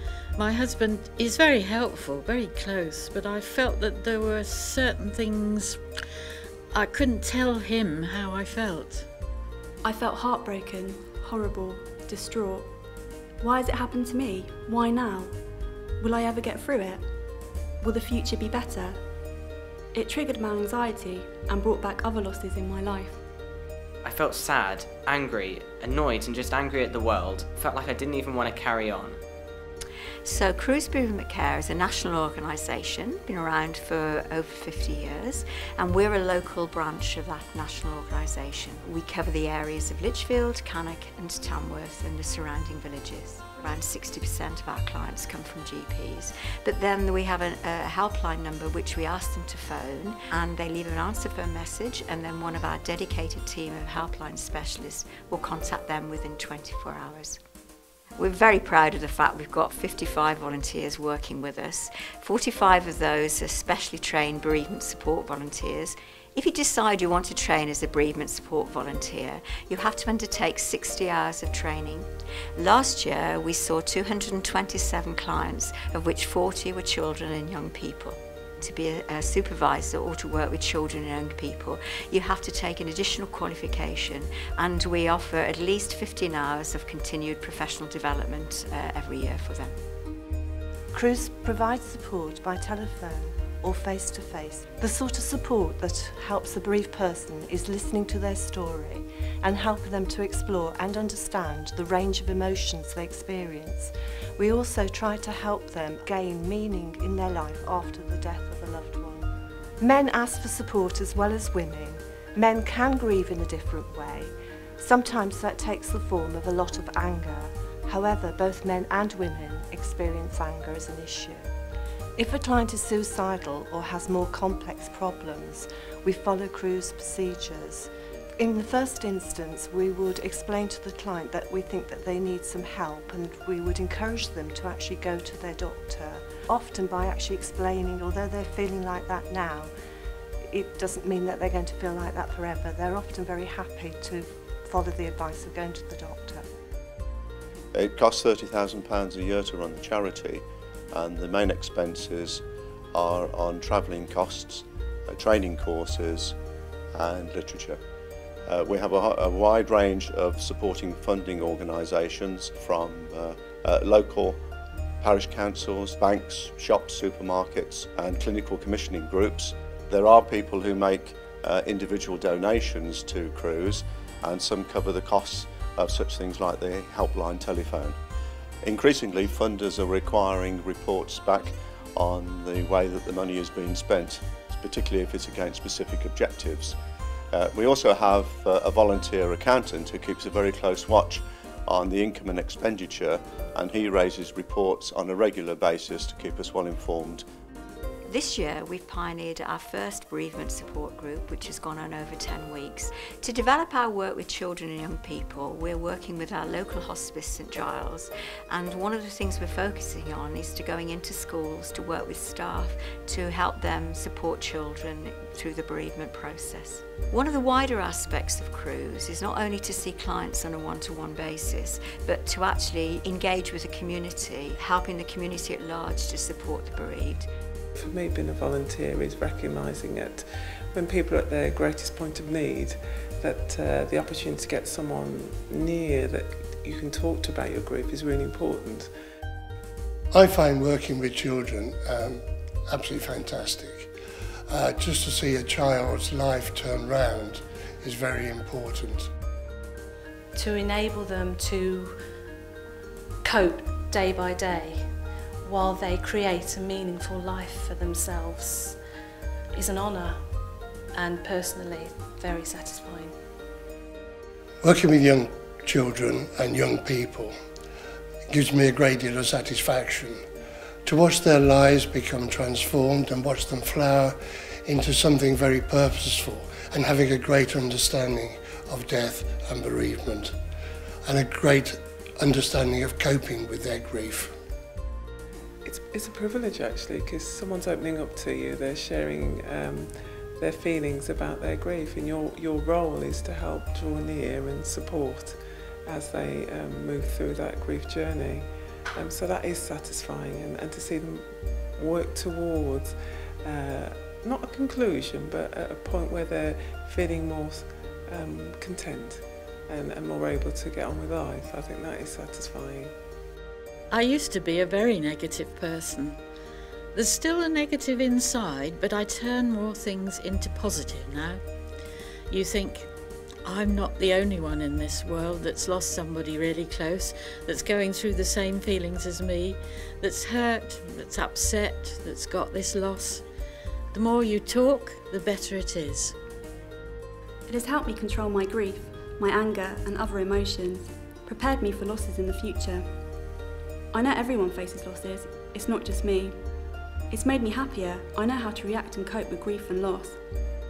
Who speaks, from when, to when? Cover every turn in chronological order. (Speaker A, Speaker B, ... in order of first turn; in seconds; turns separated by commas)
Speaker A: 0.4-5.8, Speaker A: 6.7-9.1, Speaker B: 9.8-12.7, Speaker B: 13.4-15.4, Speaker B: 16.0-17.2, Speaker B: 17.8-19.0, Speaker B: 19.9-23.2, Speaker C: 24.0-29.2, Speaker D: 30.2-57.4, Speaker D: 58.2-89.8, Speaker E: 90.9-109.3, Speaker E: 109.8-121.5, Speaker E: 122.2-139.7, Speaker E: 140.5-146.4, Speaker F: 147.8-152.4, Speaker F: 152.9-156.3, Speaker F: 156.9-157.8, Speaker F: 158.5-164.4, Speaker F: 165.0-178.0, Speaker F: 178.6-186.8, Speaker F: 187.3-197.2, Speaker D: 198.1-227.3, Speaker G: 227.8-238.9, Speaker H: 240.1-243.9, Speaker H: 244.5-249.1, Speaker I: 250.3-252.0, Speaker I: 253.2-258.8, Speaker I: 259.5-260.4, Speaker I: 260.9-263.1, Speaker H: 264.6-267.3, Speaker H: 268.3-270.2, Speaker H: 270.8-280.3, Speaker H: 281.1-284.3, Speaker G: 285.6-312.9, Speaker A: 313.9-316.2, Speaker A: 316.9-321.4, Speaker A: 322.3-322.9, Speaker A: 323.4-333.2, Speaker A: 333.9-336.1, Speaker B: 337.5-343.2, Speaker B: 343.9-350.2